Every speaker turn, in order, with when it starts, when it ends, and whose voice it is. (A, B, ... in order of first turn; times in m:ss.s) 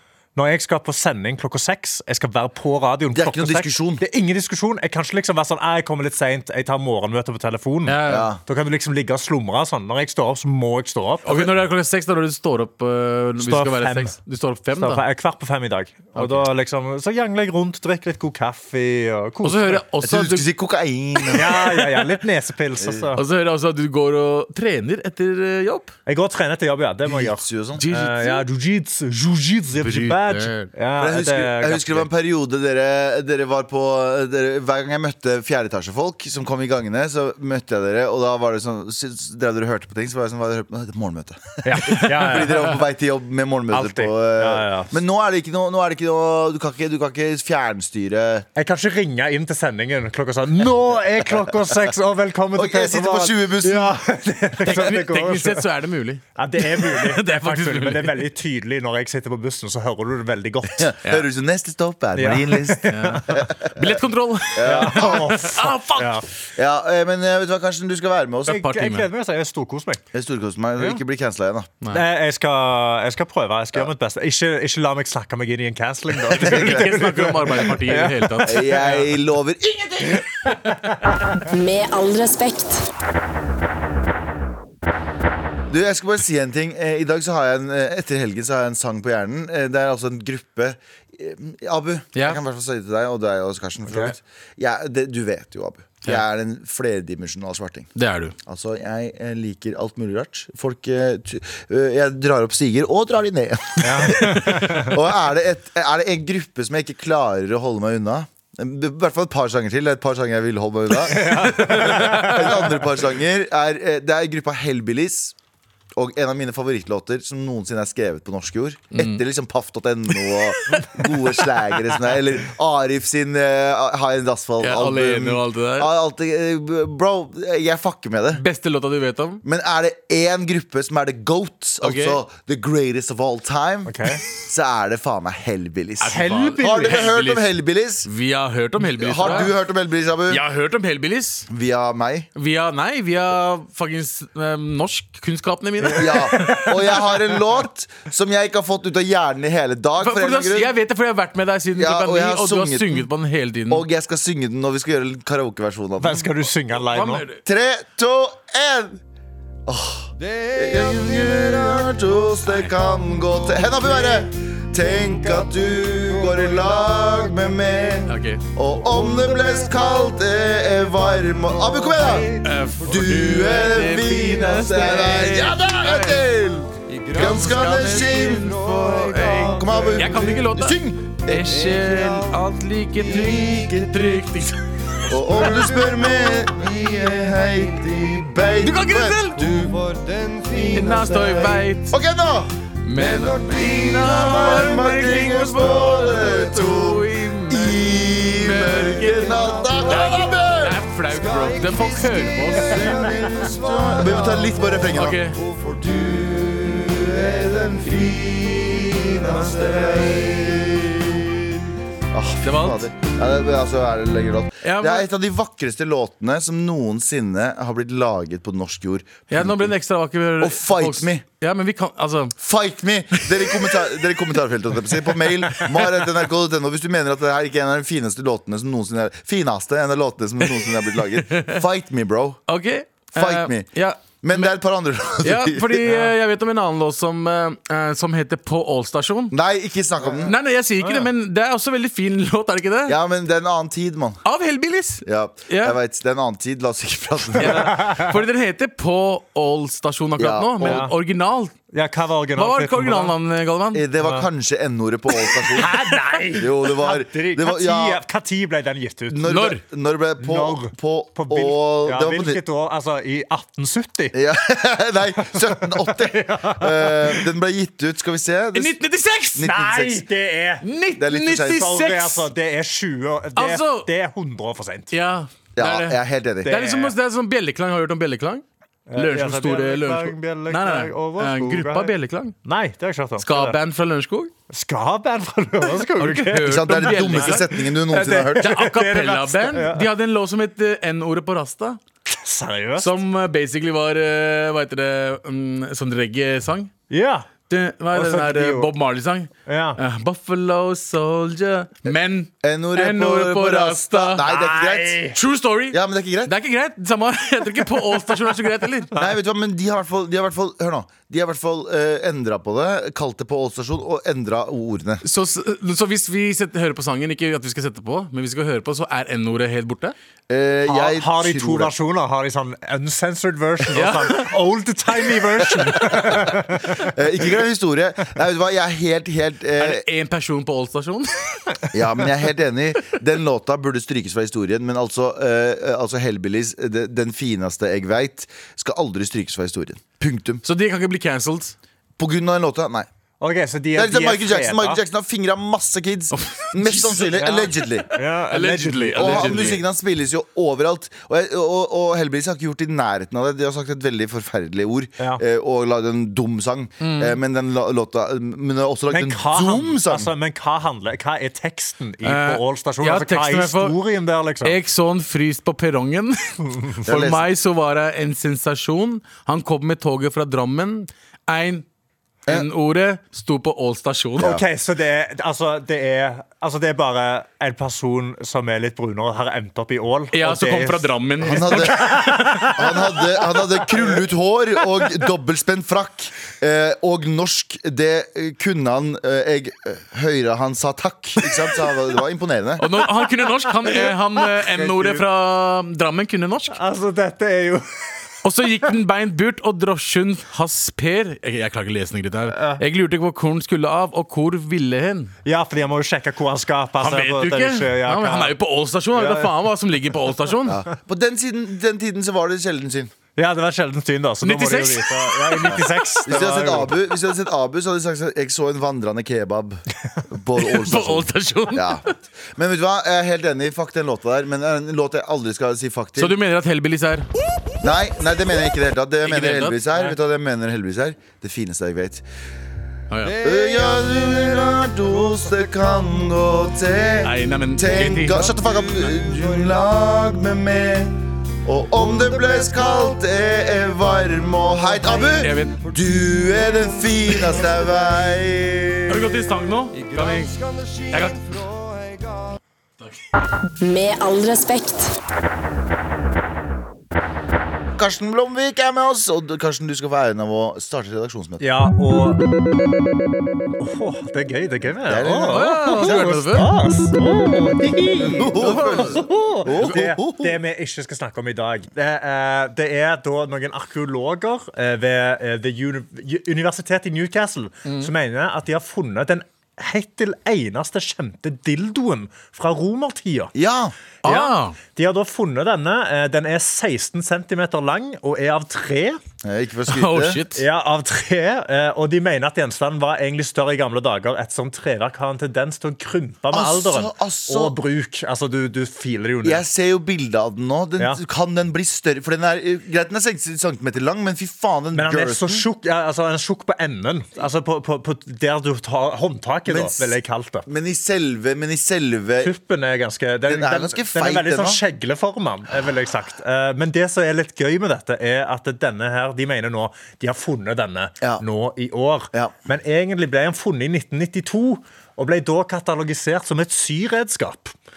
0:00.4-0:11.5 A
0:03.1-0:04.0 B
0:07.8-0:08.3 C
0:08.0-0:08.4 B
0:11.2-0:15.0 C
0:13.4-0:14.2 A
0:14.8-0:19.8 A
0:19.4-0:20.5 C
0:20.0-0:22.0 B
0:21.3-0:23.2 A
0:22.8-0:23.1 B
0:23.1-0:25.9 C
0:26.0-0:32.1 A
0:27.0-0:27.8 B
0:27.8-0:28.4 C
0:29.8-0:30.7 C
0:31.0-0:48.5 B
0:41.6-0:42.8 A
0:41.8-0:42.4 C
0:43.7-0:45.0 A
0:48.6-0:55.7 A
0:52.5-0:54.0 B
0:54.6-0:58.2 C
0:56.4-1:01.0 A
1:00.8-1:04.0 B
1:02.1-1:03.3 A
1:02.9-1:06.2 C
1:04.5-1:05.4 B
1:04.6-1:06.2 A
1:06.5-1:08.6 B
1:08.5-1:09.0 C
1:08.5-1:10.0 A
1:10.1-1:11.7 B
1:11.9-1:19.1 A
1:16.3-1:17.0 B
1:16.4-1:18.8 C
1:18.4-1:20.2 B
1:20.9-1:21.4 A
1:21.5-1:22.9 D
1:25.7-1:37.9 B
1:32.1-1:32.4 C
1:38.0-1:38.4 C
1:38.4-1:55.3 B
1:43.8-1:44.9 A
1:51.1-1:52.7 A
1:51.8-1:52.3 C
1:55.9-2:08.4 B
1:58.9-1:59.2 C
2:04.6-2:05.9 C
2:08.3-2:09.4 C
2:09.4-2:18.1 B
2:11.8-2:12.2 C
2:13.9-2:14.2 A
2:16.0-2:17.5 C
2:16.1-2:17.0 A
2:18.0-2:19.5 C
2:18.8-2:20.4 B
2:20.3-2:21.5 C
2:21.5-2:22.3 B
2:22.4-2:26.3 C
2:25.8-2:27.2 A
2:26.0-2:30.7 B
2:30.0-2:33.8 C
2:31.8-2:33.1 B
2:33.7-2:36.3 B
2:36.0-2:37.2 A
2:36.9-2:37.4 C
2:37.4-2:39.0 B
2:39.7-2:58.6 B
2:42.5-2:42.7 C
2:48.1-2:48.4 C
2:52.4-2:56.2 C
2:57.1-3:04.6 C
2:59.2-3:01.5 B
3:03.0-3:03.9 B
3:05.1-3:20.8 B
3:08.6-3:09.5 C
3:10.7-3:12.0 C
3:12.8-3:22.9 C
3:22.5-3:31.6 B
3:24.9-3:25.4 C
3:32.1-3:39.7 B
3:32.4-3:32.9 C
3:34.6-3:35.1 C
3:39.3-3:42.4 C
3:40.4-3:41.2 B
3:42.4-3:52.4 B
3:43.1-3:43.8 C
3:45.0-3:46.0 C
3:50.4-3:51.6 C
3:52.5-3:54.5 C
3:53.2-3:55.8 B
3:55.2-3:59.4 C
3:55.9-3:56.1 A
3:59.3-4:00.3 B
4:00.2-4:03.0 C
4:00.8-4:01.1 A
4:02.9-4:04.2 B
4:04.2-4:05.8 C
4:05.0-4:07.8 B
4:07.4-4:11.5 C
4:07.4-4:08.2 A
4:10.2-4:10.9 B
4:10.6-4:10.9 A
4:11.7-4:13.1 A
4:12.4-4:13.8 C
4:13.7-4:15.8 B
4:14.0-4:14.3 A
4:15.5-4:19.4 A
4:16.3-4:18.0 B
4:19.1-4:22.4 B
4:19.2-4:19.6 C
4:20.2-4:24.2 A
4:24.1-4:28.8 B
4:25.2-4:27.3 A
4:28.5-4:29.5 C
4:29.4-4:30.0 B
4:29.4-4:30.6 A
4:30.6-4:32.2 C
4:31.0-4:31.7 B
4:31.4-4:34.9 A
4:33.4-4:33.9 C
4:34.9-4:38.4 C
4:35.6-4:36.5 B
4:36.4-4:37.0 A
4:38.9-4:41.9 A
4:39.0-4:42.4 C
4:42.4-4:43.6 A
4:43.2-4:44.3 C
4:44.5-4:49.9 A
4:45.9-4:47.5 C
4:46.4-4:48.6 B
4:48.4-4:51.8 C
4:52.1-4:53.0 A
4:52.8-4:56.7 C
4:56.9-4:57.3 A
4:57.5-5:04.2 C
4:57.9-4:58.7 A
4:59.5-4:59.8 A
5:02.4-5:05.1 B
5:04.2-5:05.2 A
5:05.1-5:08.9 C
5:05.7-5:06.3 B
5:08.9-5:15.0 B
5:15.0-5:19.9 C
5:20.3-5:21.7 B
5:20.6-5:26.9 A
5:23.7-5:24.3 C
5:25.6-5:29.8 B
5:29.6-5:31.6 C
5:31.7-5:40.4 B
5:40.4-5:41.5 C
5:42.0-5:42.9 B
5:43.2-5:44.8 A
5:43.7-5:47.9 B
5:46.1-5:47.2 C
5:47.1-5:49.6 A
5:47.9-5:49.6 C
5:48.9-6:00.1 B
5:56.8-5:57.2 C
5:58.9-6:04.6 A
6:02.0-6:03.7 C
6:04.4-6:06.3 C
6:06.8-6:11.6 C
6:06.8-6:07.2 B
6:12.3-6:14.3 C
6:14.2-6:14.4 B
6:14.2-6:23.4 A
6:20.1-6:22.5 C
6:21.2-6:32.6 B
6:32.6-6:36.6 C
6:33.8-6:35.0 A
6:36.5-6:37.9 A
6:38.2-6:45.1 C
6:42.3-6:42.6 A
6:45.2-6:48.3 A
6:46.8-6:50.6 C
6:48.9-6:49.4 A
6:50.5-6:52.9 B
6:53.2-6:56.8 A
6:54.2-6:55.8 C
6:55.4-7:06.2 B
7:00.4-7:01.8 C
7:06.0-7:07.1 C
7:07.6-7:12.0 B
7:09.0-7:09.9 C
7:12.9-7:13.2 C
7:13.2-7:29.2 B
7:17.0-7:18.3 C
7:24.9-7:25.6 C
7:28.9-7:30.3 C
7:30.9-7:31.3 C
7:33.6-7:34.9 D
7:37.8-7:41.4 B
7:41.4-7:42.2 A
7:43.6-8:03.3 A
7:44.9-7:46.1 B
7:45.3-7:46.5 C
7:48.1-7:50.4 B
8:03.3-8:03.7 B
8:04.0-8:04.6 C
8:04.0-8:09.0 A
8:09.2-8:10.2 B
8:09.7-8:10.4 C
8:10.4-8:19.4 A
8:16.3-8:17.6 B
8:19.2-8:25.4 B
8:24.7-8:30.4 A
8:29.5-8:32.3 B
8:32.2-8:47.5 A
8:33.3-8:34.6 B